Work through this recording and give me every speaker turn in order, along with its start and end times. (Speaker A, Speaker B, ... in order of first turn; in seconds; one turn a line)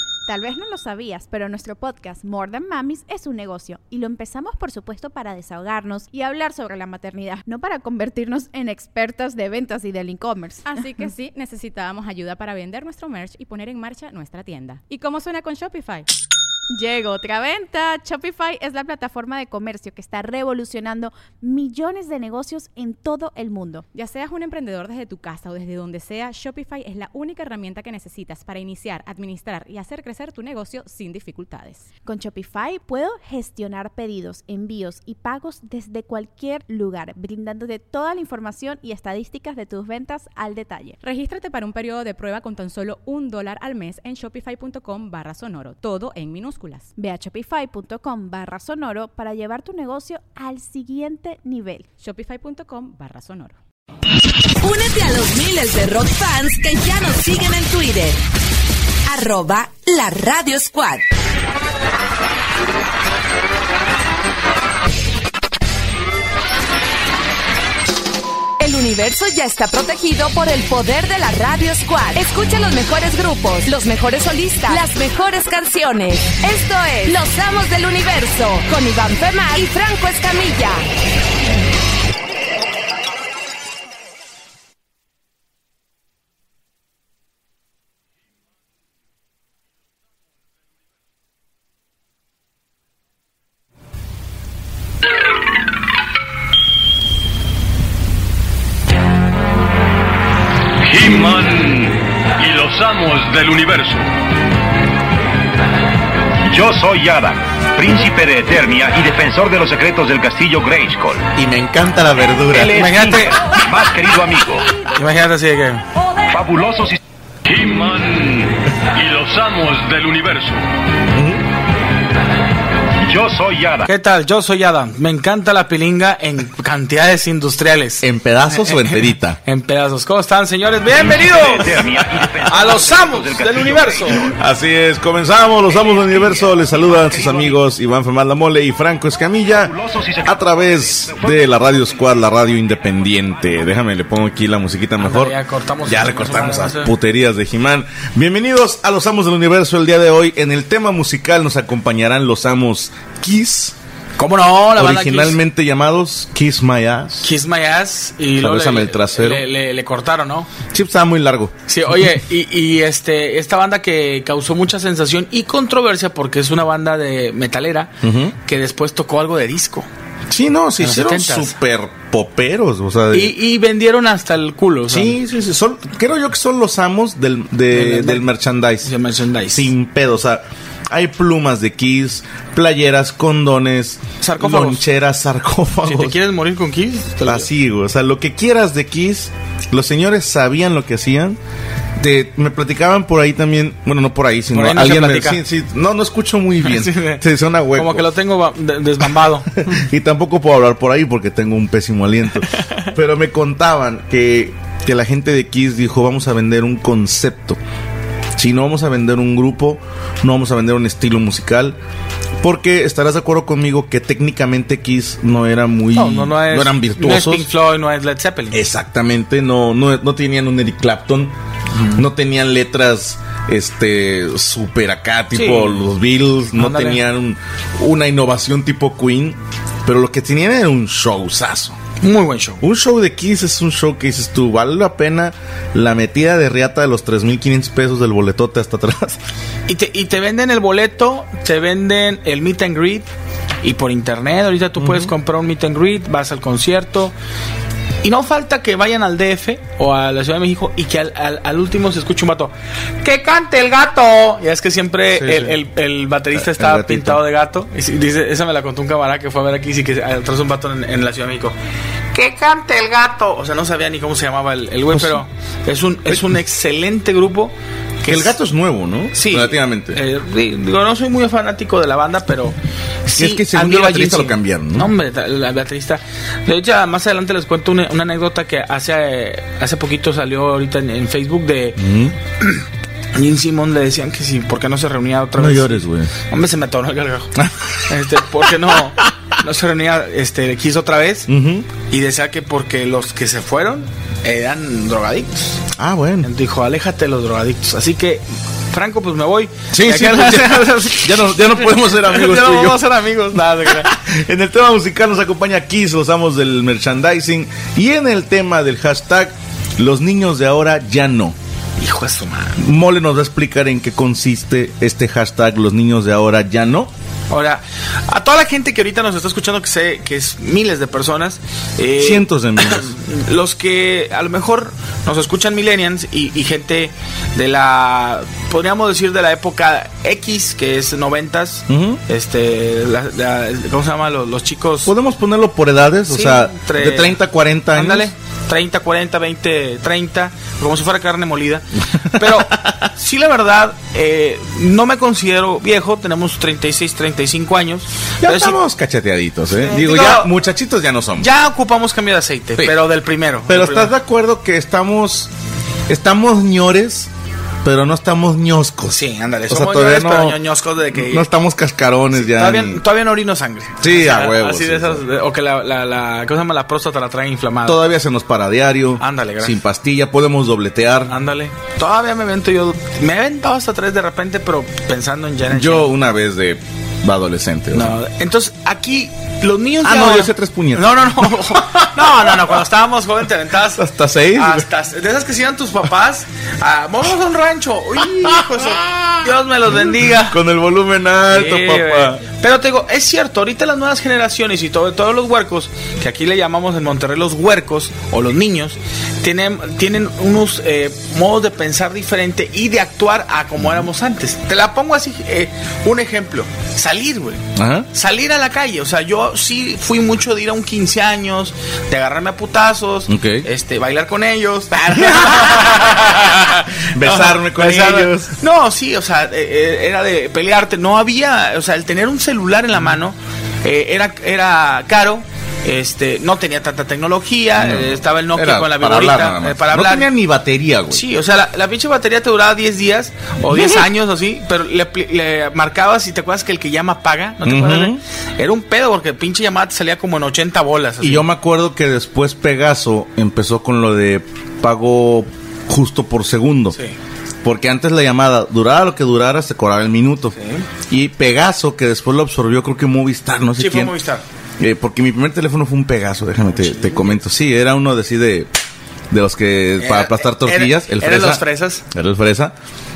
Speaker A: 0.3-10.7
Speaker B: 10.7-16.1
Speaker A: 16.7-23.8
Speaker B: 23.9-31.9
Speaker A: 32.0-41.0
Speaker B: 41.0-46.9
Speaker A: 47.0-51.9
Speaker B: 52.0-53.6
Speaker C: 54.6-58.2
Speaker C: 59.1-61.1
Speaker C: 68.6-80.8
Speaker D: 100.8-104.1
Speaker E: 106.4-111.3
Speaker F: 111.3-113.3
Speaker G: 112.5-113.4
Speaker E: 113.5-114.8
Speaker G: 114.9-115.8
Speaker E: 116.3-117.0
Speaker D: 117.5-120.6
Speaker F: 121.1-121.4
Speaker E: 123.0-123.9
Speaker G: 123.8-128.0
Speaker F: 128.0-129.4
Speaker G: 128.6-131.8
Speaker E: 131.0-134.2
Speaker G: 132.5-134.2
Speaker F: 134.2-145.3
Speaker E: 137.0-137.6
Speaker E: 139.6-141.3
Speaker G: 145.0-146.9
Speaker F: 145.8-153.7
Speaker G: 154.2-155.4
Speaker F: 154.8-157.3
Speaker G: 157.2-160.5
Speaker F: 158.4-159.4
Speaker F: 160.7-161.5
Speaker G: 161.7-167.9
Speaker F: 168.0-168.3
Speaker G: 168.4-169.9
Speaker F: 170.3-173.3
Speaker G: 170.8-171.6
Speaker G: 173.1-175.2
Speaker F: 174.9-178.9
Speaker G: 177.7-178.2
Speaker G: 178.8-179.7
Speaker F: 179.5-186.2
Speaker G: 184.2-184.8
Speaker G: 185.8-187.5
Speaker F: 187.2-191.4
Speaker F: 192.0-198.0
Speaker G: 194.5-195.4
Speaker G: 196.6-197.2
Speaker G: 197.8-199.5
Speaker F: 199.7-207.6
Speaker G: 202.5-202.8
Speaker F: 208.4-211.8
Speaker F: 212.4-217.5
Speaker G: 215.9-218.6
Speaker F: 218.5-221.3
Speaker G: 221.7-222.0
Speaker F: 221.9-231.8
Speaker G: 225.3-225.8
Speaker G: 226.6-227.0
Speaker G: 232.0-232.6
Speaker F: 232.6-239.2
Speaker G: 239.7-243.1
Speaker G: 243.6-247.1
Speaker F: 244.8-245.1
Speaker G: 248.0-261.6
Speaker F: 255.1-255.6
Speaker F: 256.3-257.2
Speaker G: 262.1-268.3
Speaker F: 264.9-265.2
Speaker F: 268.1-270.0
Speaker G: 269.1-281.8
Speaker F: 273.1-274.9
Speaker F: 281.8-282.1
Speaker G: 283.1-287.3
Speaker F: 285.4-286.1
Speaker G: 287.9-291.3
Speaker F: 291.3-291.7
Speaker G: 291.8-295.6
Speaker F: 295.8-296.3
Speaker G: 296.2-303.9
Speaker F: 299.7-302.8
Speaker F: 303.3-311.4
Speaker G: 311.8-312.6
Speaker F: 312.6-316.9
Speaker G: 317.3-334.9
Speaker F: 322.0-322.9
Speaker F: 331.7-332.0
Speaker F: 334.8-338.1
Speaker G: 336.1-337.2
Speaker G: 337.7-348.6
Speaker F: 342.1-342.7
Speaker F: 348.2-351.3
Speaker G: 349.6-350.3
Speaker G: 351.2-353.9
Speaker F: 353.5-355.3
Speaker F: 355.9-357.1
Speaker F: 357.6-360.4
Speaker G: 358.9-361.2
Speaker F: 360.9-362.8
Speaker G: 362.1-367.8
Speaker F: 363.8-365.0
Speaker F: 367.6-371.1
Speaker G: 369.0-369.6
Speaker G: 371.1-375.9
Speaker F: 375.5-378.0
Speaker G: 377.7-390.4
Speaker F: 379.8-382.3
Speaker F: 383.8-384.6
Speaker F: 388.8-389.1
Speaker F: 390.3-392.2
Speaker G: 391.3-430.1
Speaker F: 403.6-403.9
Speaker F: 407.6-407.9
Speaker F: 413.1-413.5
Speaker F: 414.9-415.8
Speaker F: 416.9-418.3
Speaker F: 427.6-431.0
Speaker G: 430.9-441.2
Speaker F: 433.5-433.8
Speaker F: 437.4-438.0
Speaker F: 441.0-446.8
Speaker F: 447.4-450.3
Speaker G: 450.4-450.6
Speaker F: 450.9-453.9
Speaker G: 453.6-454.2
Speaker F: 454.6-458.5
Speaker G: 456.5-457.1
Speaker F: 459.1-462.5
Speaker G: 459.8-461.8